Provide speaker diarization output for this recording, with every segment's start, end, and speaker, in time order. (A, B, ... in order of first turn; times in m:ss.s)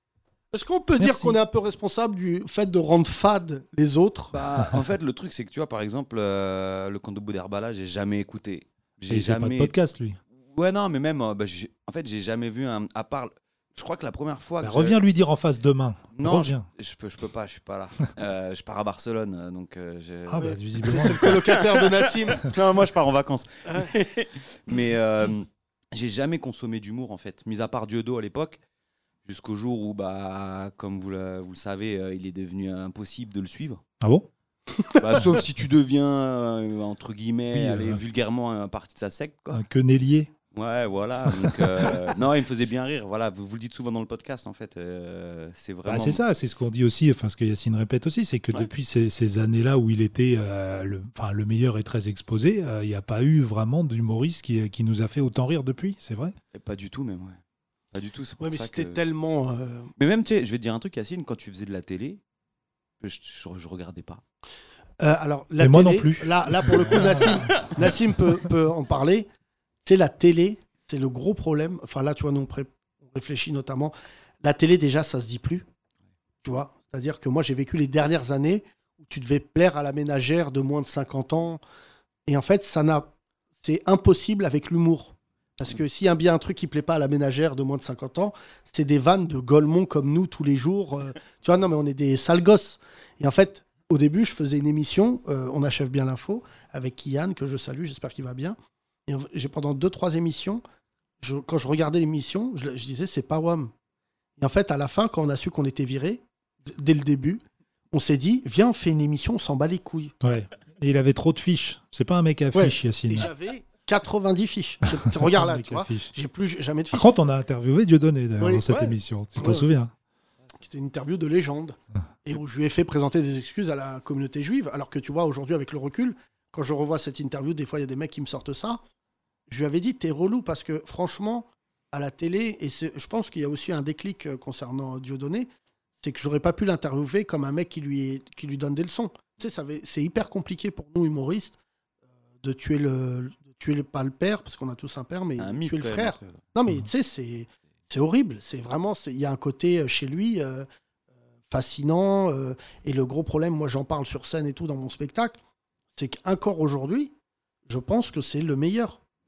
0:00.5-0:04.3 A
0:01.0-0:01.4 B
0:04.3-0:09.7 C
0:09.1-0:10.2 B
0:10.3-0:15.0 C
0:14.6-0:16.6 B
0:16.1-0:28.6 C
0:20.3-0:21.4 B
0:20.4-0:22.4 A
0:29.2-0:33.8 C
0:34.0-0:34.3 B
0:35.0-0:39.6 C
0:37.5-0:38.0 B
0:39.5-0:40.3 B
0:40.5-0:46.2 C
0:41.3-0:42.0 B
0:45.8-0:56.3 B
0:56.5-0:57.4 C
0:57.9-0:59.0 C
0:58.4-0:59.9 A
1:00.0-1:02.2 C
1:03.0-1:04.2 C
1:05.0-1:09.3 A
1:05.6-1:07.0 B
1:07.1-1:07.6 C
1:09.8-1:15.6 A
1:16.4-1:21.6 A
1:22.3-1:23.1 A
1:23.6-1:38.6 A
1:39.1-1:40.6 A
1:41.2-1:43.7 A
1:44.4-1:50.1 A
1:50.2-1:53.3 B
1:52.5-1:57.1 A
1:55.0-1:56.1 B
1:56.9-1:59.9 B
1:58.4-1:58.7 A
1:59.4-1:59.6 A
2:00.6-2:08.8 A
2:09.5-2:15.5 A
2:16.0-2:21.6 A
2:22.4-2:30.6 A
2:25.4-2:26.4 C
2:31.5-2:35.4 A
2:35.9-2:37.1 A
2:37.7-2:39.0 A